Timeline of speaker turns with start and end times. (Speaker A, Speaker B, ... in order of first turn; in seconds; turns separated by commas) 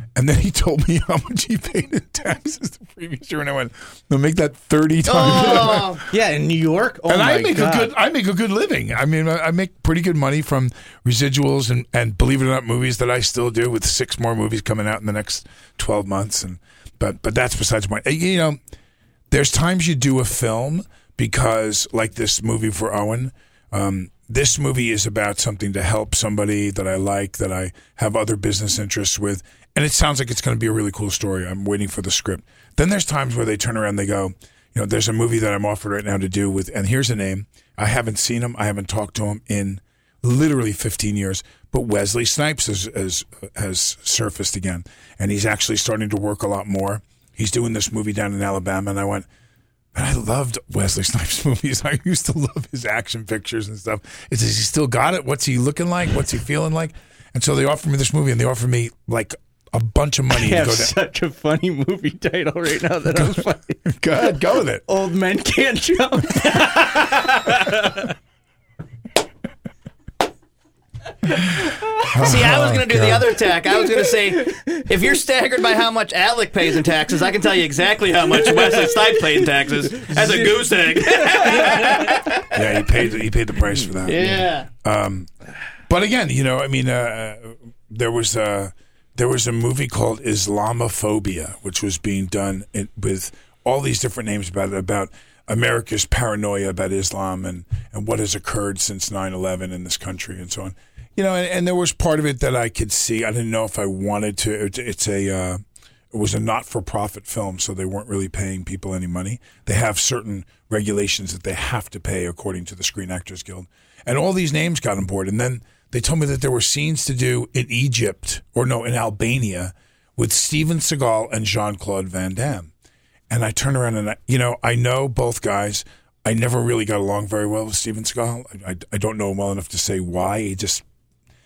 Speaker A: 0.1-6.0, Speaker B: 5.1-6.0, Speaker C: 6.1-7.9, Speaker A: 7.1-18.6, Speaker A: 19.3-49.3, Speaker A: 49.9-60.9, Speaker C: 60.3-63.9, Speaker A: 63.9-64.8, Speaker C: 64.9-68.0, Speaker A: 72.1-73.4, Speaker B: 72.1-82.5, Speaker C: 81.4-82.0, Speaker A: 82.5-85.3, Speaker B: 84.1-84.7, Speaker A: 85.9-105.6, Speaker A: 106.1-122.7, Speaker A: 123.3-130.8